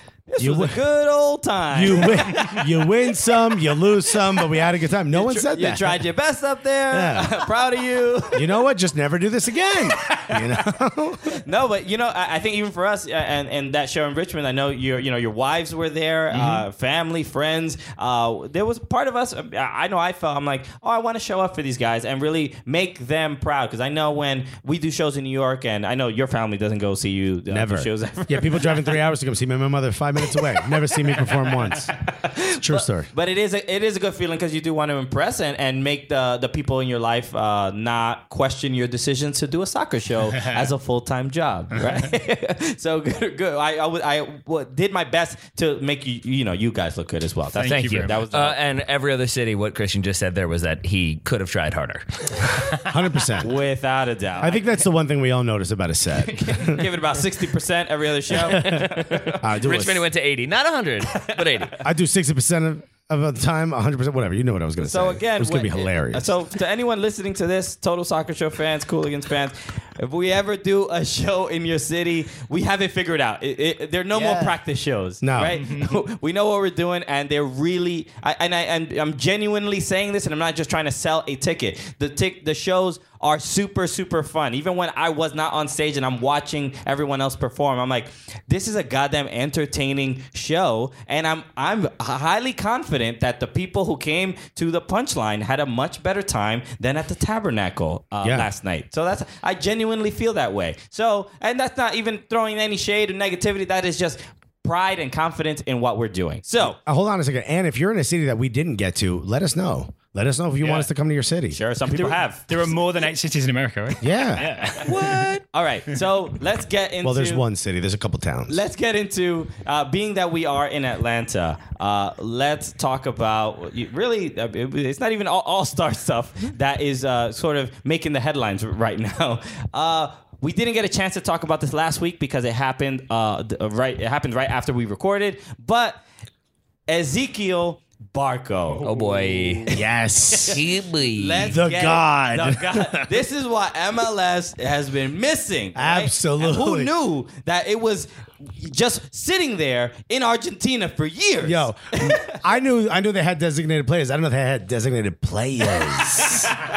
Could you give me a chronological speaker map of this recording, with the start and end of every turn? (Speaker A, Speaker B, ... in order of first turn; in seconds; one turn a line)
Speaker A: 0.3-2.8
Speaker B: 0.4-0.8
Speaker B: 1.7-6.0
Speaker A: 5.1-8.6
Speaker B: 6.9-7.3
Speaker B: 8.3-11.4
Speaker A: 11.2-29.0
Speaker B: 16.3-16.6
Speaker B: 27.5-33.1
Speaker A: 32.0-48.6
Speaker C: 47.5-48.2
Speaker D: 47.6-52.7
Speaker B: 52.8-53.5
Speaker A: 53.4-54.8
Speaker B: 54.4-56.8
Speaker A: 56.2-59.4
Speaker B: 58.3-60.0
Speaker D: 59.2-61.8
Speaker B: 61.8-66.3
Speaker A: 64.8-106.8
Speaker B: 74.1-74.5
Speaker B: 75.2-75.6
Speaker C: 75.4-75.9
Speaker B: 106.7-111.6
Speaker A: 111.5-112.7
Speaker C: 111.9-115.3
Speaker B: 114.0-114.6
Speaker A: 114.8-117.4
Speaker B: 117.0-118.6
Speaker A: 118.5-136.0
Speaker A: 136.9-139.8
Speaker D: 138.8-139.7
Speaker B: 139.7-140.6
Speaker A: 140.3-152.4
Speaker D: 140.5-141.6
Speaker B: 141.5-143.1
Speaker B: 145.8-146.9
Speaker B: 151.4-156.6